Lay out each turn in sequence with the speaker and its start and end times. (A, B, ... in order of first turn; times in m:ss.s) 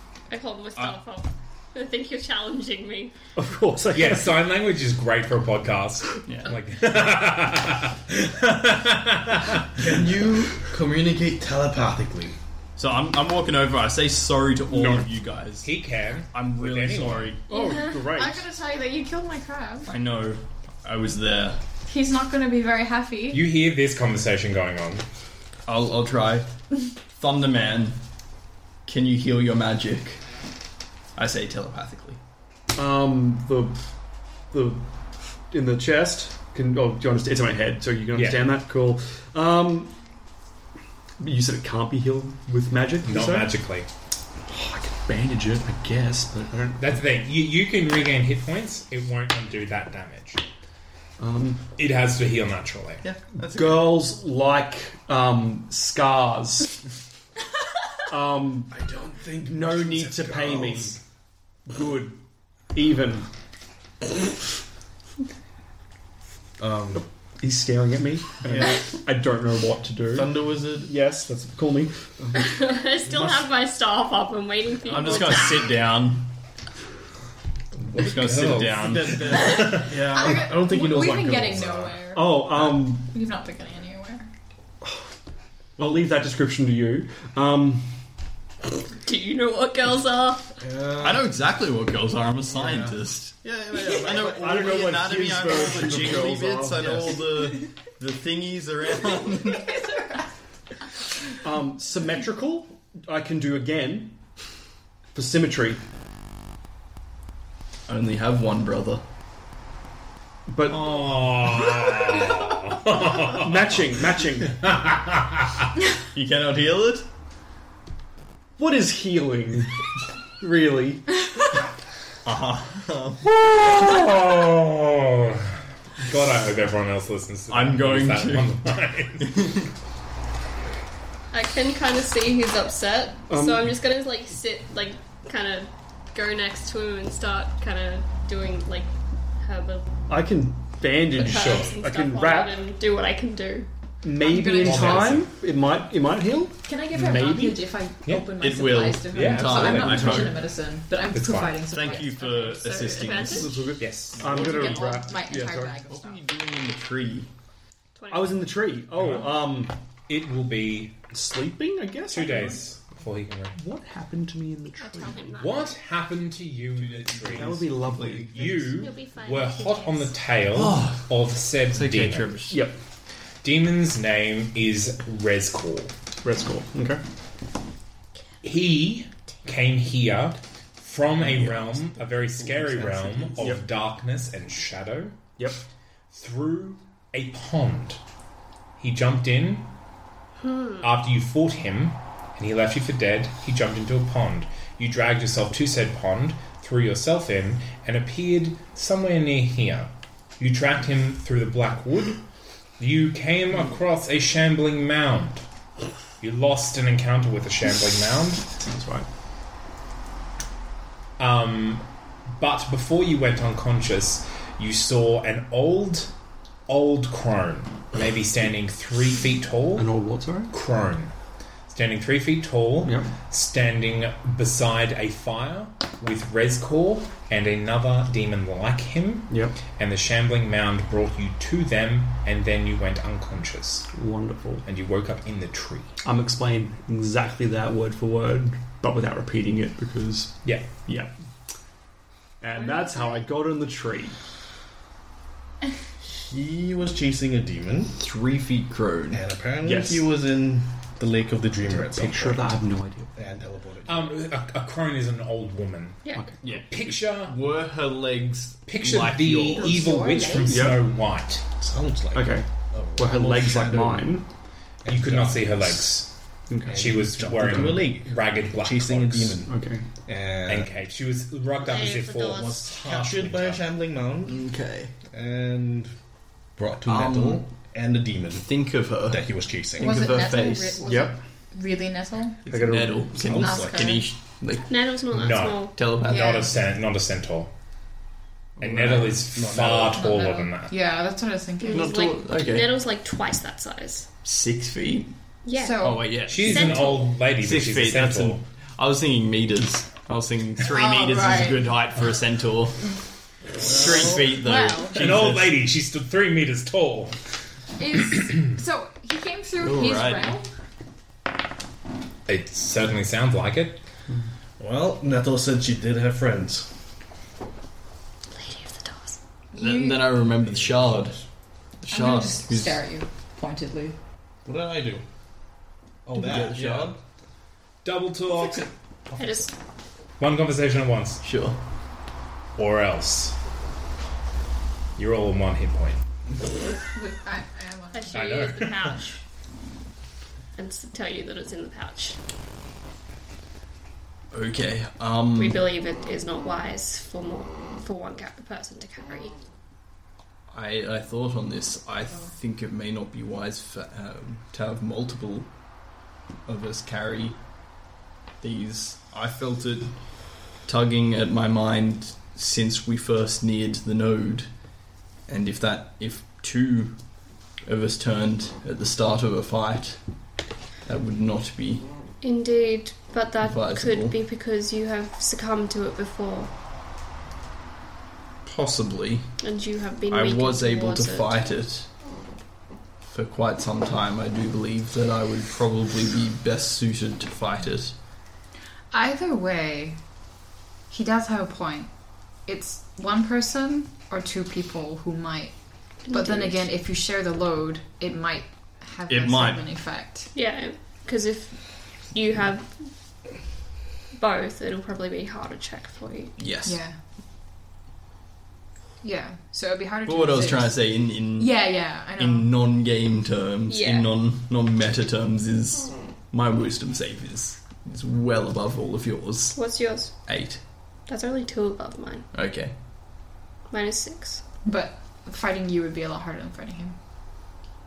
0:00.3-0:03.1 A
0:03.4-0:04.5 B
0:03.9-0:09.8 C
0:06.2-0:06.6 D
0:09.8-0:12.4 E
0:12.8-0:15.8 D
0:15.6-0:17.4 C
0:16.3-0:17.4 D
0:17.5-0:18.4 B
0:17.5-0:19.9 F
0:19.9-0:21.6 D
0:21.8-0:23.5 F
0:23.3-0:25.0 C
0:25.7-0:26.5 D
0:27.1-0:28.0 D
0:28.8-0:30.2 D
0:31.2-0:32.2 D
0:32.8-0:33.8 B
0:34.5-0:34.8 B
0:35.5-0:40.0 B
0:38.1-0:38.6 C
0:41.2-0:43.5 B
0:43.0-0:43.9 C
0:44.5-0:47.0 B
0:46.8-0:50.4 C
0:51.2-0:51.6 B
0:51.8-0:53.0 C
0:53.0-0:54.0 D
0:53.4-0:56.8 B
0:58.1-0:58.7 B
0:58.7-1:01.0 E
0:59.4-1:01.0 B
1:01.7-1:02.2 B
1:02.7-1:03.3 B
1:06.6-1:07.0 E
1:07.4-1:12.5 B
1:08.5-1:08.8 E
1:10.1-1:10.9 E
1:12.3-1:15.8 A
1:14.8-1:16.3 D
1:17.9-1:20.0 C
1:17.9-1:19.2 D
1:18.8-1:22.1 E
1:19.8-1:24.3 F
1:22.1-1:23.1 B
1:25.8-1:27.9 B
1:29.0-1:30.6 A
1:30.6-1:31.3 E
1:31.0-1:39.7 D
1:32.5-1:33.0 E
1:33.8-1:35.0 E
1:34.2-1:37.3 B
1:35.6-1:36.2 E
1:39.7-1:40.2 F
1:41.4-1:44.2 B
1:45.1-1:45.8 B
1:47.9-1:49.0 D
1:50.5-1:50.9 B
1:50.6-1:53.8 C
1:53.3-1:54.6 B
1:54.5-1:55.7 C
1:56.1-1:57.1 D
1:58.6-1:59.8 B
2:00.4-2:01.1 B
2:02.2-2:03.3 D
2:03.2-2:09.6 C
2:07.5-2:08.6 D
2:09.2-2:09.6 D
2:11.3-2:19.9 A
2:13.3-2:13.7 B
2:20.1-2:22.6 B
2:21.2-2:23.7 A
2:21.2-2:21.8 C
2:24.0-2:27.6 B
2:24.2-2:25.1 F
2:24.6-2:25.3 C
2:26.6-2:33.0 F
2:28.0-2:28.3 C
2:28.3-2:30.4 D
2:29.1-2:30.4 C
2:29.8-2:30.2 B
2:31.1-2:31.7 C
2:31.7-2:33.6 D
2:32.0-2:33.6 A
2:33.2-2:35.8 B
2:33.8-2:34.3 C
2:34.2-2:35.0 D
2:34.2-2:36.2 F
2:35.9-2:37.3 D
2:37.9-2:38.5 A
2:38.1-2:39.8 B
2:38.9-2:39.4 C
2:40.1-2:41.0 C
2:41.1-2:42.7 B
2:42.1-2:43.6 C
2:43.5-2:45.2 B
2:44.8-2:45.7 A
2:45.4-2:52.4 C
2:46.7-2:48.7 D
2:47.3-2:48.3 B
2:48.4-2:50.1 A
2:50.5-2:52.7 D
2:52.5-2:52.8 B
2:53.4-2:55.9 C
2:56.2-2:57.0 B
2:58.4-3:05.2 C
3:01.2-3:03.4 D
3:03.4-3:03.6 B
3:05.4-3:05.6 B
3:06.1-3:08.0 C
3:08.8-3:09.7 C
3:10.4-3:10.8 A
3:10.8-3:22.2 C
3:22.8-3:25.4 C
3:26.2-3:28.4 C
3:28.6-3:29.1 B
3:31.2-3:36.1 C
3:36.7-3:39.9 C
3:39.8-3:40.5 B
3:40.5-3:41.1 C
3:41.7-3:53.9 C
3:42.8-3:43.1 B
3:49.3-3:49.6 B
3:53.9-3:54.6 B
3:54.6-3:55.9 C
3:56.0-4:01.1 B
4:00.4-4:00.7 C
4:02.4-4:04.2 B
4:02.5-4:03.2 A
4:06.0-4:07.9 E
4:07.9-4:09.3 D
4:09.1-4:12.6 E
4:09.6-4:10.1 B
4:11.6-4:13.1 B
4:13.1-4:14.2 E
4:13.8-4:17.4 C
4:16.4-4:20.0 D
4:18.6-4:21.4 C
4:19.7-4:20.5 A
4:20.4-4:20.8 B
4:21.6-4:24.2 E
4:22.1-4:24.2 B
4:24.8-4:26.0 E
4:24.8-4:26.1 C
4:26.5-4:27.8 B
4:26.7-4:29.5 E
4:26.7-4:29.4 C
4:29.5-4:29.8 B
4:30.0-4:30.8 E
4:30.5-4:33.6 C
4:31.6-4:32.6 A
4:32.2-4:34.4 E
4:34.2-4:34.9 D
4:35.1-4:35.9 E
4:36.6-4:38.4 E
4:36.8-4:37.5 D
4:38.4-4:40.9 D
4:39.1-4:40.1 E
4:39.8-4:42.5 F
4:40.8-4:41.2 B
4:42.5-4:43.4 B
4:42.5-4:44.8 D
4:43.2-4:44.0 E
4:43.4-4:44.0 F
4:44.6-4:45.8 A
4:45.1-4:47.5 C
4:45.7-4:46.4 D
4:46.0-4:46.5 F
4:48.6-4:50.7 C
4:48.6-4:49.2 D
4:49.3-4:50.1 E
4:49.9-4:51.9 F
4:51.6-4:54.1 A
4:51.7-4:52.7 D
4:54.2-4:55.1 D
4:55.4-4:57.1 A
4:55.5-4:56.2 F
4:55.8-5:02.9 D
4:56.2-4:58.4 C
5:00.6-5:01.8 F
5:03.6-5:04.3 E
5:03.6-5:05.6 D
5:04.2-5:05.0 F
5:04.9-5:07.2 C
5:07.8-5:10.5 F
5:08.2-5:08.5 C
5:09.6-5:10.3 D
5:12.3-5:13.8 C
5:14.6-5:16.7 E
5:18.3-5:19.2 A
5:19.6-5:20.2 F
5:19.6-5:21.2 D
5:20.4-5:21.2 E
5:21.8-5:22.8 D
5:21.9-5:24.0 F
5:24.4-5:25.0 E
5:26.0-5:27.0 E
5:26.1-5:27.0 D
5:27.8-5:28.7 C
5:29.1-5:29.4 E
5:29.2-5:29.5 A
5:30.2-5:31.2 C
5:31.2-5:31.6 D
5:32.6-5:33.3 C
5:35.0-5:36.0 C
5:36.9-5:38.1 F
5:37.9-5:39.2 A
5:38.1-5:39.0 C
5:40.6-5:42.2 A
5:44.3-5:45.6 D
5:45.3-5:49.4 A
5:50.5-5:55.5 D
5:56.4-5:57.4 D
5:58.4-6:04.5 D
6:05.3-6:07.0 D
6:07.6-6:10.0 D
6:10.8-6:11.9 D
6:12.2-6:16.5 A
6:13.4-6:14.2 D
6:18.4-6:19.3 D
6:19.4-6:21.6 A
6:20.1-6:21.9 D
6:23.1-6:27.9 D
6:28.9-6:30.0 F
6:30.9-6:31.9 F
6:32.4-6:35.5 F
6:36.0-6:36.7 A
6:36.1-6:40.3 F
6:39.1-6:39.7 D
6:40.3-6:42.9 A
6:44.2-6:46.3 A
6:46.4-6:46.8 D
6:46.6-6:47.0 F
6:49.0-6:52.5 F
6:50.0-6:59.6 D
6:53.7-6:54.1 A
6:59.5-7:00.2 A
7:00.2-7:00.6 D
7:01.1-7:02.2 A
7:02.3-7:02.7 D
7:03.7-7:04.4 A
7:04.6-7:07.0 F